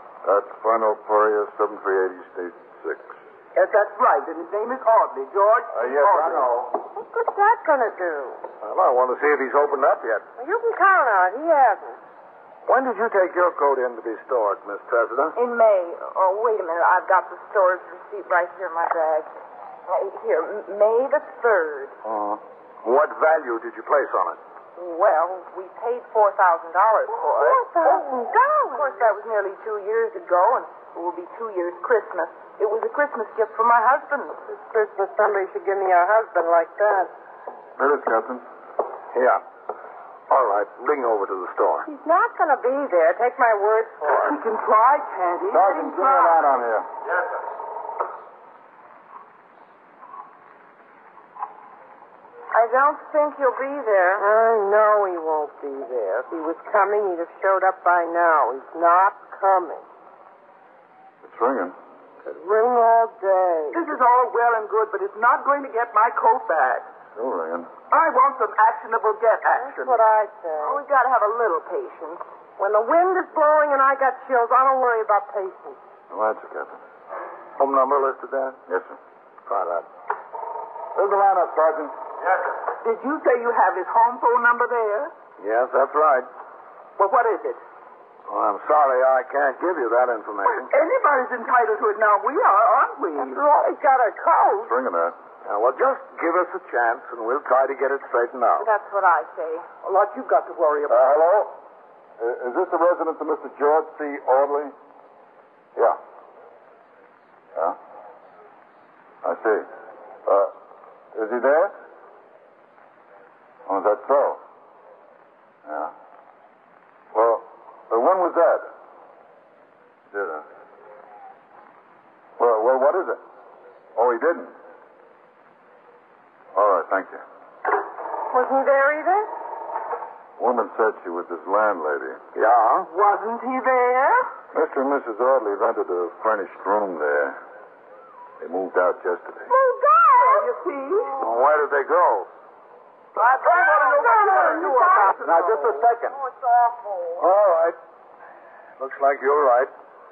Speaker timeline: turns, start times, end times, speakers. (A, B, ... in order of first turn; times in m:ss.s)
0:00.2-0:03.2 A
0:03.5-0:06.6 B
0:05.7-0:06.7 A
0:06.9-0:08.4 C
0:08.6-0:10.2 D
0:10.4-0:12.0 C
0:12.6-0:15.4 D
0:15.4-0:19.3 E
0:19.9-0:22.0 E
0:22.0-0:24.4 D
0:24.8-0:34.4 E
0:27.3-0:28.8 C
0:34.5-0:37.1 C
0:37.8-0:38.4 A
0:39.1-0:39.4 D
0:40.3-0:41.9 D
0:41.8-0:44.4 C
0:44.2-0:46.6 B
0:45.5-0:46.9 A
0:52.5-0:54.2 E
0:54.2-0:59.8 C
1:01.2-1:01.7 A
1:02.2-1:03.8 C
1:03.7-1:06.9 B
1:07.2-1:07.7 A
1:07.9-1:10.0 B
1:09.6-1:10.8 C
1:10.6-1:12.2 E
1:12.6-1:15.8 C
1:16.1-1:16.7 A
1:17.6-1:18.6 D
1:18.7-1:18.9 A
1:19.5-1:19.8 D
1:20.9-1:21.9 A
1:22.8-1:25.1 B
1:25.4-1:26.3 D
1:27.0-1:27.6 B
1:28.3-1:30.7 D
1:30.5-1:33.4 B
1:33.2-1:34.7 C
1:34.6-1:35.1 A
1:35.4-1:38.7 D
1:38.6-1:39.7 E
1:39.8-1:41.3 B
1:40.9-1:41.5 A
1:42.2-1:44.7 A
1:49.2-1:49.7 A
1:50.2-1:50.5 A
1:51.1-1:51.7 A
1:53.7-1:54.4 A
1:55.7-1:55.9 A
1:57.1-1:58.7 A
2:00.1-2:00.4 A
2:02.4-2:03.2 A
2:03.9-2:04.5 A
2:06.5-2:07.2 A
2:08.3-2:09.3 C
2:10.4-2:12.2 A
2:12.3-2:12.9 D
2:12.9-2:13.7 B
2:14.5-2:17.4 A
2:18.4-2:19.5 A
2:19.5-2:20.5 C
2:20.2-2:21.2 B
2:21.2-2:22.3 D
2:23.2-2:25.8 B
2:23.4-2:25.3 C
2:23.5-2:25.2 E
2:25.4-2:25.9 A
2:26.1-2:27.2 C
2:27.2-2:27.7 D
2:28.8-2:29.7 D